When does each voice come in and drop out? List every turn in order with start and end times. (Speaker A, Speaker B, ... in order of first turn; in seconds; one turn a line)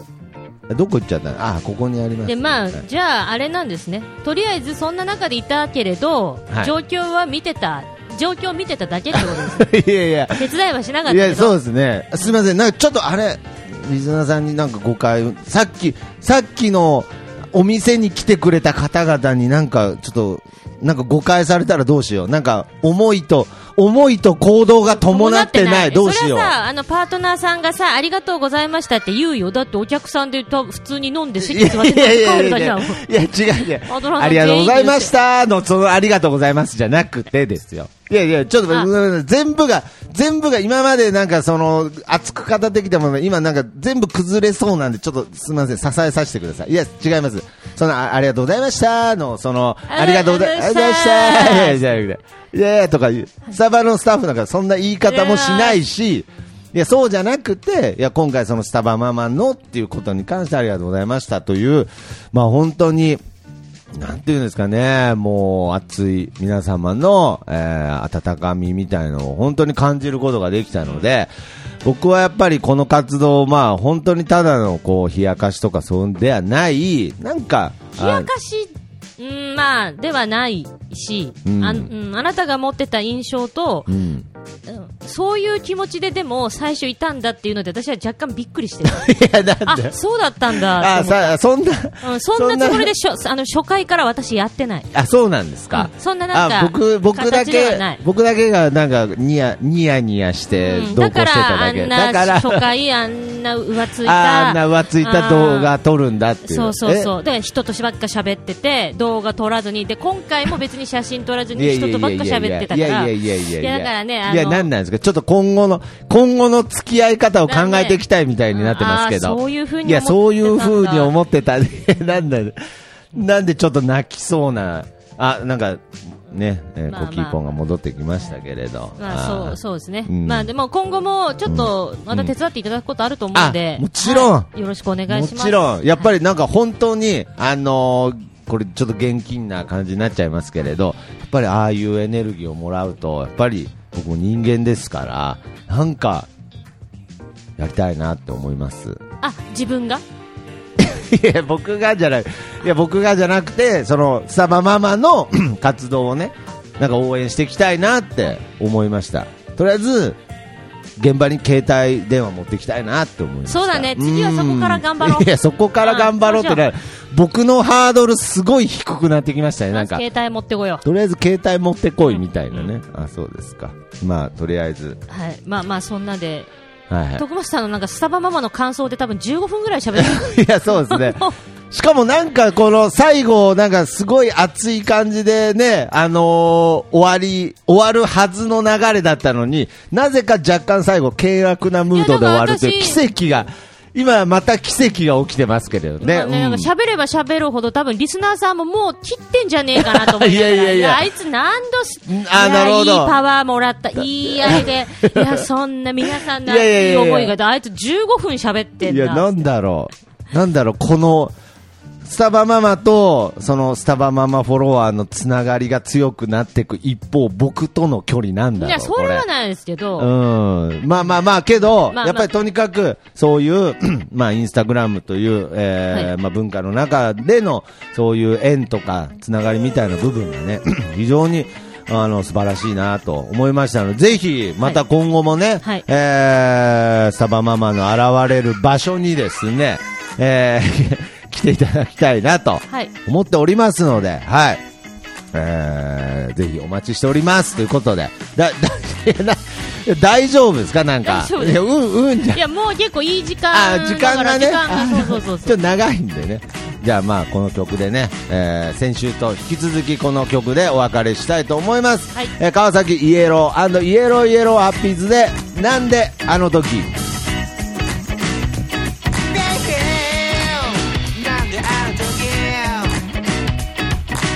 Speaker A: 0.7-2.8
Speaker B: 2.2-9.7
Speaker A: 9.1-10.5
Speaker B: 10.3-11.6
Speaker A: 11.1-26.5
Speaker B: 24.9-33.0
Speaker A: 31.4-63.2
Speaker B: 33.9-35.1
Speaker B: 49.9-52.0
Speaker B: 55.0-55.8
Speaker A: 63.9-71.3
Speaker A: 71.8-78.3
Speaker B: 78.0-83.9
Speaker A: 81.4-81.9
Speaker A: 83.9-84.3
Speaker B: 84.7-89.1
Speaker A: 88.8-89.9
Speaker B: 89.6-91.3
Speaker A: 90.5-92.9
Speaker B: 92.0-94.9
Speaker A: 94.9-102.7
Speaker B: 95.7-98.0
Speaker B: 100.5-105.7
Speaker A: 104.0-107.1
Speaker B: 106.4-114.7
Speaker A: 111.5-122.6
Speaker B: 117.5-118.0
Speaker B: 118.5-121.1
Speaker A: 123.1-130.5
Speaker B: 126.9-127.4
Speaker B: 129.0-136.1
Speaker A: 131.4-132.3
Speaker A: 133.3-134.5
Speaker A: 135.1-146.3
Speaker A: 147.6-149.0
Speaker B: 149.2-150.0
Speaker A: 150.8-160.2
Speaker A: 161.0-170.0
Speaker B: 163.5-166.7
Speaker B: 169.7-170.8
Speaker A: 170.8-175.0
Speaker B: 175.1-176.5
Speaker A: 176.9-177.2
Speaker B: 177.2-181.3
Speaker A: 179.9-196.7
Speaker B: 191.9-193.0
Speaker B: 196.0-209.4
Speaker A: 199.8-201.0
Speaker A: 202.1-203.2
Speaker A: 204.0-205.4
Speaker A: 206.1-207.3
Speaker A: 208.8-211.3
Speaker A: 212.0-219.2
Speaker B: 218.6-220.1
Speaker A: 220.0-244.6
Speaker B: 221.9-222.3
Speaker A: 245.3-252.4
Speaker B: 251.0-251.6
Speaker B: 252.3-255.6
Speaker A: 253.5-266.9
Speaker C: 269.3-273.1